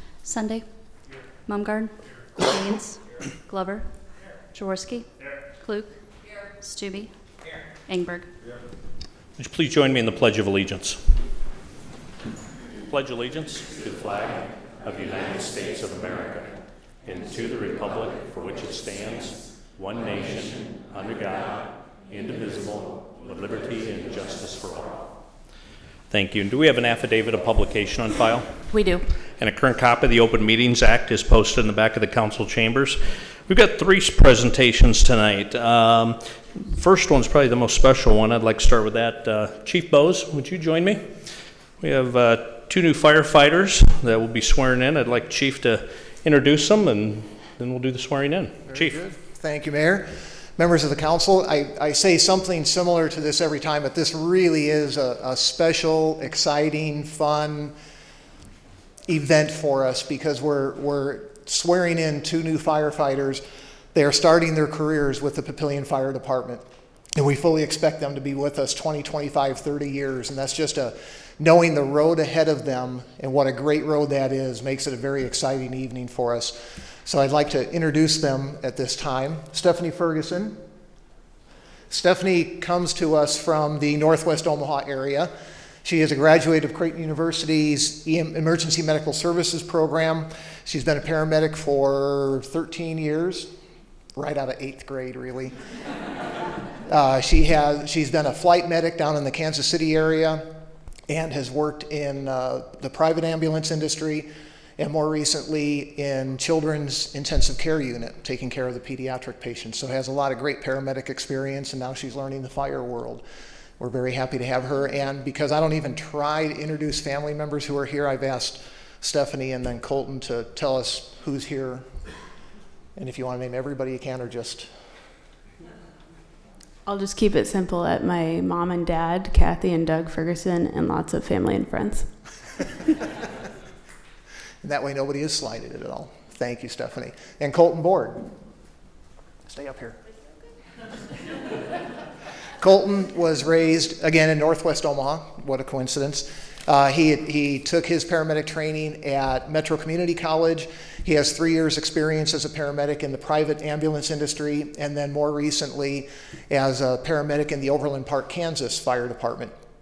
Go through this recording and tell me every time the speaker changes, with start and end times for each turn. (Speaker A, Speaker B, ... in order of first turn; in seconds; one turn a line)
Speaker A: 0.2-0.7
Speaker A: 1.5-3.9
Speaker A: 4.5-5.1
Speaker A: 5.6-5.9
Speaker A: 6.6-7.1
Speaker A: 7.9-8.3
Speaker B: 9.4-11.0
Speaker B: 12.9-25.0
Speaker B: 26.1-28.6
Speaker A: 28.7-29.0
Speaker B: 29.4-41.0
Speaker B: 41.8-49.0
Speaker C: 48.7-57.7
Speaker C: 59.1-63.4
Speaker C: 63.9-66.6
Speaker C: 67.2-80.5
Speaker C: 81.9-85.3
Speaker C: 85.8-93.5
Speaker C: 94.2-95.5
Speaker C: 96.9-100.5
Speaker C: 101.1-113.2
Speaker C: 113.8-121.8
Speaker C: 123.0-124.7
Speaker D: 126.9-132.1
Speaker C: 134.6-138.3
Speaker C: 139.5-140.0
Speaker C: 142.6-159.5